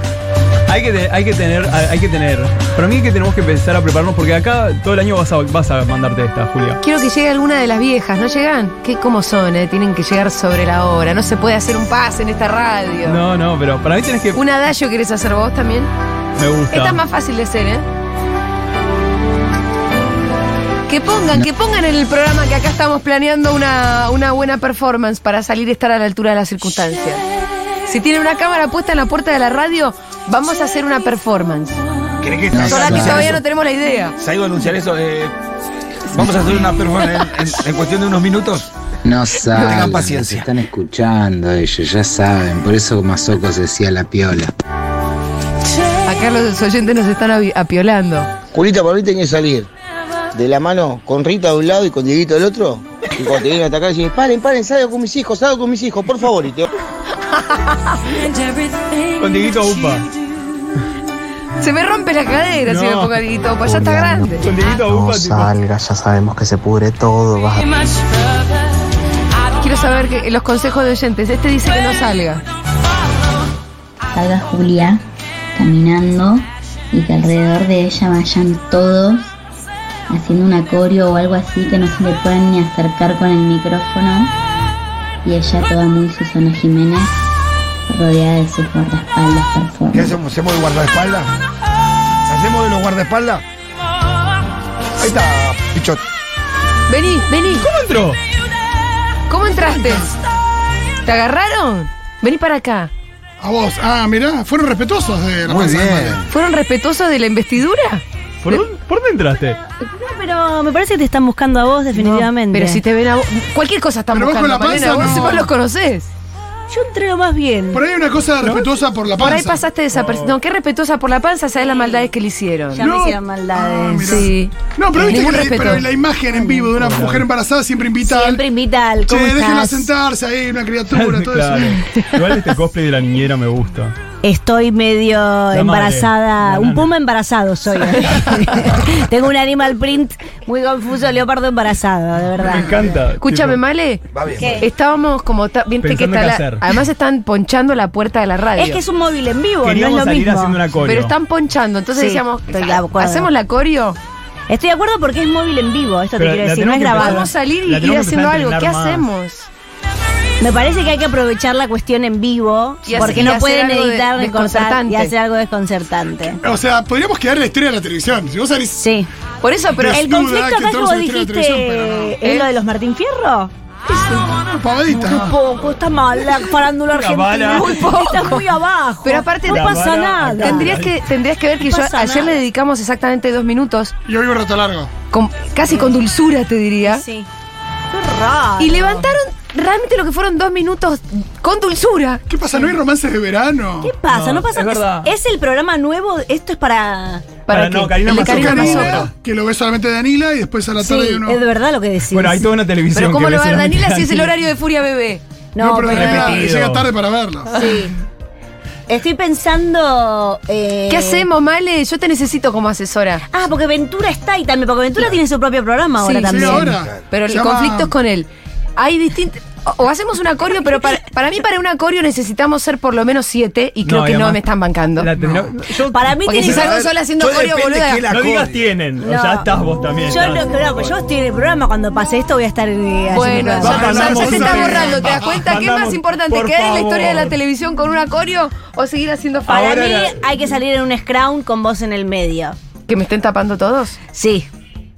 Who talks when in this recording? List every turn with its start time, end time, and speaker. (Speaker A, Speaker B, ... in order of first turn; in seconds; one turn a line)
Speaker A: 0.7-6.8
Speaker B: 6.8-13.2
Speaker A: 13.0-14.4
Speaker B: 14.3-15.9
Speaker A: 16.4-17.0
Speaker B: 16.7-17.9
Speaker B: 20.9-27.2
Speaker B: 27.9-31.8
Speaker C: 32.2-33.4
Speaker D: 32.5-33.4
Speaker B: 32.6-34.1
Speaker C: 34.2-35.3
Speaker C: 36.1-38.7
Speaker D: 39.0-44.5
Speaker C: 39.5-40.5
Speaker B: 46.0-48.3
Speaker E: 48.5-49.7
Speaker E: 50.3-56.7
Speaker B: 57.3-58.0
Speaker A: 59.2-60.1
Speaker B: 61.6-64.5
Speaker A: 62.7-63.1
Speaker A: 64.3-65.5
Speaker F: 65.1-67.6
Speaker B: 69.6-72.4
Speaker G: 74.1-75.0
Speaker G: 75.6-79.4
Speaker G: 80.1-84.3
Speaker G: 85.2-87.1
Speaker G: 87.9-90.2
Speaker C: 89.9-91.3
Speaker C: 92.3-93.4
Speaker C: 95.0-96.0
Speaker B: 96.9-97.7
Speaker A: 97.5-98.2
Speaker B: 99.3-100.1
Speaker H: 99.5-100.1
Speaker B: 101.0-102.9
Speaker H: 103.4-106.2
Speaker C: 105.5-106.3
Speaker B: 106.3-108.0
Speaker A: 108.4-109.6
Speaker I: 109.9-112.8
Speaker B: 111.9-116.1
Speaker H: 114.1-115.5
Speaker I: 115.0-115.2
Speaker I: 116.7-117.8
Speaker H: 117.7-119.6
Speaker B: 119.2-122.9
Speaker A: 119.9-120.4
Speaker I: 121.7-122.1
Speaker I: 122.7-124.3
Speaker H: 122.8-128.4
Speaker B: 124.0-125.9
Speaker A: 126.7-127.2
Speaker I: 128.0-129.9
Speaker H: 129.1-131.8
Speaker A: 130.9-133.9
Speaker I: 134.2-143.0
Speaker A: 135.5-136.9
Speaker A: 142.4-143.6
Speaker B: 143.2-144.0
Speaker C: 144.1-144.6
Speaker I: 144.4-144.7
Speaker B: 144.6-148.8
Speaker A: 145.8-146.6
Speaker I: 148.6-150.6
Speaker A: 149.6-151.1
Speaker B: 150.8-154.0
Speaker I: 151.9-153.3
Speaker I: 154.5-157.3
Speaker A: 156.2-159.1
Speaker B: 156.9-159.5
Speaker I: 160.4-166.4
Speaker B: 162.8-165.1
Speaker H: 163.0-163.3
Speaker H: 166.4-168.8
Speaker I: 168.7-169.1
Speaker B: 169.4-170.1
Speaker H: 169.8-172.2
Speaker I: 169.9-180.8
Speaker B: 172.2-172.5
Speaker H: 174.3-175.4
Speaker A: 176.9-177.8
Speaker B: 177.5-178.4
Speaker B: 179.0-183.9
Speaker A: 179.4-181.0
Speaker I: 181.6-182.4
Speaker H: 184.1-184.9
Speaker B: 185.1-187.0
Speaker I: 185.7-185.9
Speaker I: 186.8-187.3
Speaker I: 187.9-189.1
Speaker B: 188.6-192.2
Speaker H: 192.3-193.9
Speaker I: 193.8-197.4
Speaker A: 194.0-195.1
Speaker B: 197.5-199.1
Speaker A: 197.5-199.1
Speaker H: 198.0-201.4
Speaker I: 200.8-202.5
Speaker A: 202.1-204.3
Speaker B: 202.9-205.2
Speaker I: 205.6-206.4
Speaker H: 205.6-207.7
Speaker A: 205.9-206.9
Speaker I: 207.5-207.9
Speaker I: 208.9-211.2
Speaker B: 210.9-213.2
Speaker I: 213.3-216.8
Speaker B: 216.0-225.1
Speaker H: 216.2-217.9
Speaker A: 223.8-224.4
Speaker A: 225.0-226.4
Speaker I: 225.8-226.9
Speaker B: 226.2-228.0
Speaker C: 226.4-228.7
Speaker A: 228.1-230.9
Speaker I: 229.0-234.4
Speaker B: 233.1-240.1
Speaker A: 233.6-237.4
Speaker H: 233.6-235.5
Speaker A: 239.5-240.1
Speaker I: 239.5-242.6
Speaker B: 242.9-243.9
Speaker I: 244.1-244.5